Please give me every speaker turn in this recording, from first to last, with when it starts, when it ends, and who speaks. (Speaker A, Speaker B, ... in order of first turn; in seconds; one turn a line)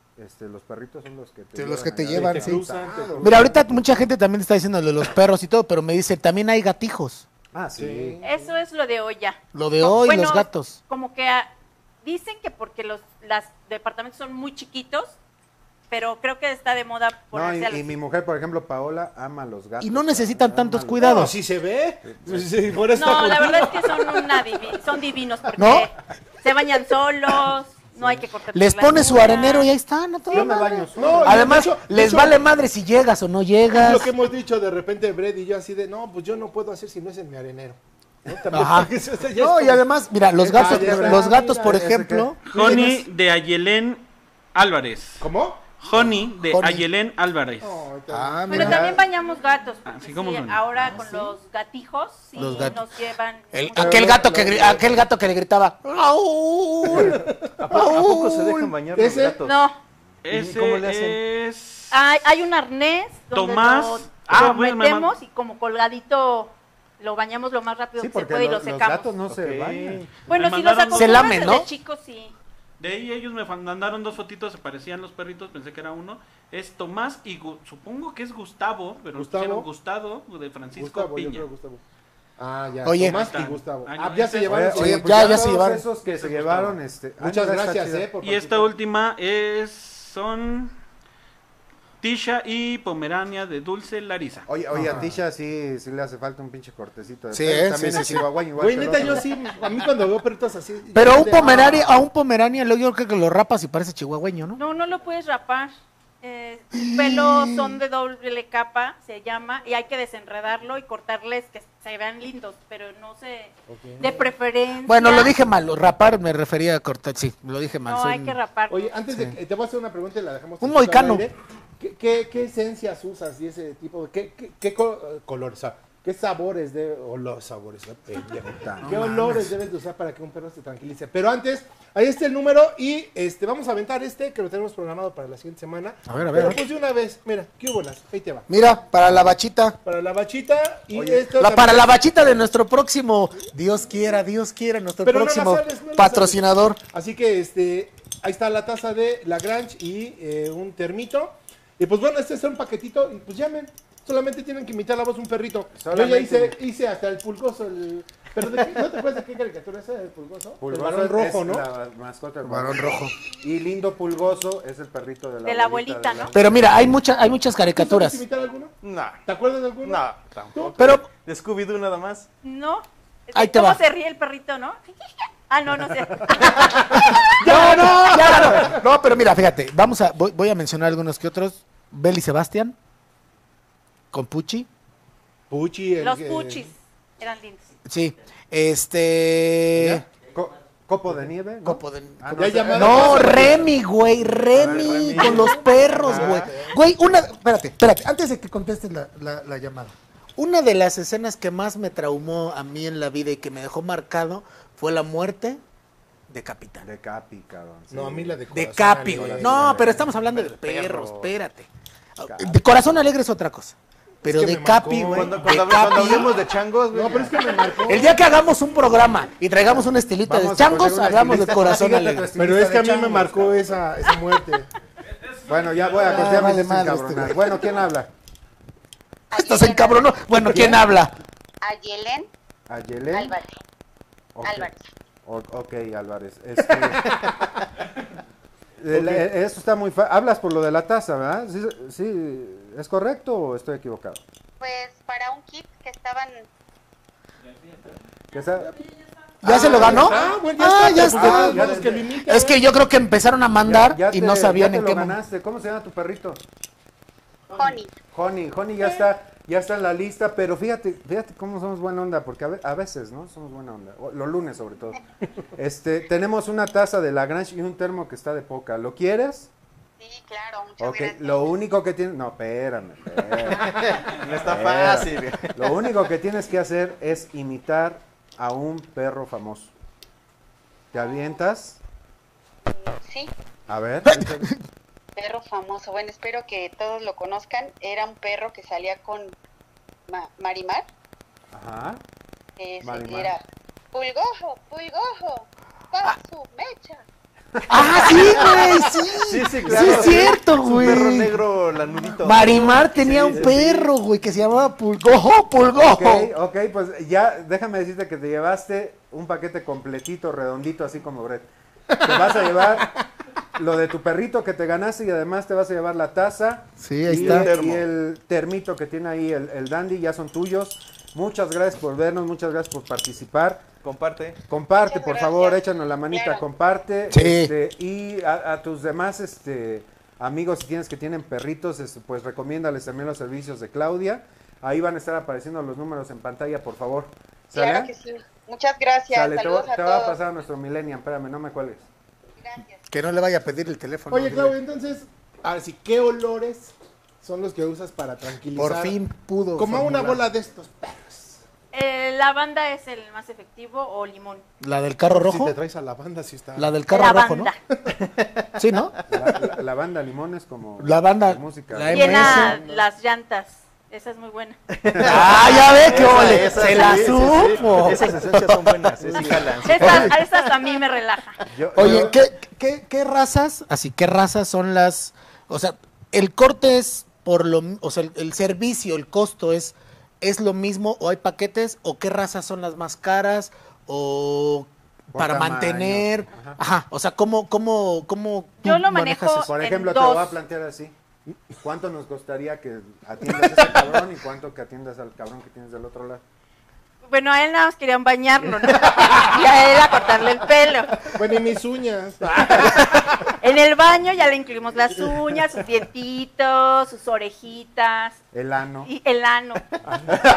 Speaker A: 0.2-3.6
Speaker B: 1.6-2.6
Speaker C: 2.1-3.7
Speaker B: 3.2-7.3
Speaker A: 7.5-8.2
Speaker C: 7.8-8.5
Speaker D: 8.2-11.5
Speaker B: 9.5-10.8
Speaker D: 12.0-15.2
Speaker D: 15.9-17.8
Speaker A: 17.3-21.3
Speaker B: 19.8-21.3
Speaker C: 21.0-24.8
Speaker A: 22.1-22.5
Speaker D: 22.9-29.7
Speaker B: 25.6-25.9
Speaker A: 27.9-28.2
Speaker B: 28.5-34.1
Speaker D: 30.3-30.7
Speaker A: 30.3-31.4
Speaker C: 30.6-32.4
Speaker C: 33.7-39.9
Speaker B: 38.5-42.4
Speaker A: 40.4-42.3
Speaker C: 40.5-41.7
Speaker C: 42.5-43.0
Speaker E: 42.5-45.3
Speaker C: 45.2-45.6
Speaker E: 45.8-47.9
Speaker B: 46.5-46.8
Speaker C: 47.6-49.0
Speaker B: 48.1-48.9
Speaker D: 48.5-54.2
Speaker E: 49.9-50.6
Speaker C: 50.9-51.3
Speaker B: 52.4-52.8
Speaker B: 53.5-58.7
Speaker A: 53.8-55.0
Speaker C: 56.9-57.6
Speaker F: 57.6-59.6
Speaker C: 58.9-59.4
Speaker D: 59.4-59.8
Speaker E: 60.2-62.0
Speaker F: 60.3-61.2
Speaker D: 61.9-69.1
Speaker E: 63.3-65.1
Speaker A: 68.0-70.1
Speaker F: 69.3-70.2
Speaker D: 70.3-72.3
Speaker E: 70.3-71.4
Speaker B: 71.0-71.7
Speaker E: 72.8-81.5
Speaker C: 79.1-79.7
Speaker C: 80.7-81.8
Speaker C: 82.4-85.3
Speaker B: 82.8-83.2
Speaker E: 83.0-84.7
Speaker A: 84.5-88.1
Speaker B: 84.8-85.8
Speaker E: 86.1-86.8
Speaker C: 87.2-88.7
Speaker E: 88.2-90.7
Speaker E: 92.0-94.5
Speaker A: 94.5-99.3
Speaker C: 94.7-95.2
Speaker B: 97.3-98.3
Speaker C: 98.6-102.0
Speaker B: 100.9-104.6
Speaker D: 104.6-115.3
Speaker B: 106.7-107.8
Speaker C: 113.7-114.3
Speaker B: 114.8-118.4
Speaker D: 117.8-118.9
Speaker C: 118.7-138.5
Speaker B: 120.6-121.3
Speaker A: 128.4-129.0
Speaker B: 128.8-129.5
Speaker B: 136.1-136.6
Speaker B: 138.5-139.8
Speaker C: 139.8-142.0
Speaker A: 140.9-141.3
Speaker B: 141.4-146.8
Speaker C: 145.0-161.7
Speaker A: 155.7-156.6
Speaker A: 160.6-166.6
Speaker B: 162.4-163.1
Speaker D: 165.4-166.3
Speaker B: 166.3-168.2
Speaker C: 167.7-170.8
Speaker F: 168.8-169.2
Speaker F: 169.8-172.3
Speaker B: 170.8-171.1
Speaker D: 172.4-174.9
Speaker B: 173.3-173.8
Speaker D: 175.5-176.8
Speaker C: 176.6-178.8
Speaker B: 176.6-182.8
Speaker B: 184.1-184.7
Speaker C: 185.5-186.7
Speaker D: 186.0-187.7
Speaker B: 187.8-190.1
Speaker A: 189.8-193.6
Speaker B: 191.6-205.6
Speaker C: 192.3-193.7
Speaker A: 194.5-195.2
Speaker F: 194.6-196.6
Speaker C: 195.2-196.8
Speaker B: 206.3-206.8
Speaker A: 206.8-208.4
Speaker C: 207.9-210.0
Speaker B: 208.5-216.3
Speaker A: 209.1-211.3
Speaker A: 212.2-212.6
Speaker C: 214.2-215.7
Speaker F: 215.1-217.6
Speaker C: 216.9-218.2
Speaker B: 217.9-222.3
Speaker A: 220.2-223.7
Speaker C: 222.4-224.7
Speaker E: 225.4-225.9
Speaker A: 225.4-228.1
Speaker B: 226.0-227.4
Speaker C: 226.2-226.5
Speaker G: 229.3-230.2
Speaker B: 229.3-231.1
Speaker A: 230.5-230.8
Speaker G: 231.6-232.3
Speaker A: 232.7-233.3
Speaker G: 233.1-233.6
Speaker A: 234.3-234.7
Speaker G: 234.4-234.9
Speaker A: 235.2-237.2
Speaker A: 238.8-244.2
Speaker C: 238.9-239.2
Speaker G: 244.6-246.5
Speaker E: 247.6-247.9
Speaker A: 248.3-248.7
Speaker B: 249.4-255.2
Speaker C: 249.4-252.6
Speaker A: 249.5-250.3
Speaker A: 251.0-252.1
Speaker A: 253.6-256.4
Speaker G: 257.5-257.9
Speaker A: 258.1-265.0
Speaker A: 265.6-269.5
Speaker G: 270.0-271.6
Speaker A: 270.8-279.7
Speaker F: 273.6-275.6
Speaker A: 280.9-281.8
Speaker G: 282.7-283.3
Speaker A: 283.7-284.5
Speaker B: 284.1-284.5
Speaker G: 285.1-289.4
Speaker G: 290.1-290.9
Speaker A: 291.5-292.0
Speaker G: 292.6-297.0
Speaker A: 292.8-293.3
Speaker A: 297.6-298.2
Speaker B: 297.7-301.4
Speaker F: 299.2-303.9
Speaker C: 299.9-300.1
Speaker B: 302.2-306.3
Speaker A: 305.8-311.5
Speaker A: 312.0-312.9
Speaker C: 312.0-312.6
Speaker A: 313.6-323.7
Speaker B: 316.8-317.5
Speaker F: 317.1-317.9
Speaker F: 323.8-324.4
Speaker A: 324.5-337.9
Speaker G: 324.8-326.4
Speaker B: 327.1-327.5
Speaker G: 337.5-340.2
Speaker A: 339.1-341.9
Speaker G: 342.4-342.8
Speaker B: 342.9-344.6
Speaker C: 344.1-349.0
Speaker B: 348.6-350.2
Speaker C: 349.6-351.4
Speaker D: 351.7-354.4
Speaker B: 354.6-355.6
Speaker C: 355.1-356.7
Speaker B: 356.6-357.5
Speaker D: 356.9-357.6
Speaker F: 358.0-358.5
Speaker B: 358.6-358.9
Speaker A: 359.1-362.8
Speaker B: 360.8-362.6
Speaker D: 361.9-364.6
Speaker F: 364.7-370.7
Speaker A: 364.9-365.3
Speaker B: 365.0-368.7
Speaker A: 369.1-370.1
Speaker D: 369.6-371.4
Speaker A: 371.5-372.2
Speaker B: 371.7-389.5
Speaker A: 385.1-386.6
Speaker D: 388.6-390.4
Speaker A: 389.4-390.9
Speaker A: 391.6-396.2
Speaker D: 397.1-401.1
Speaker C: 401.0-403.1
Speaker D: 403.4-408.2
Speaker A: 408.3-408.9
Speaker D: 408.9-409.6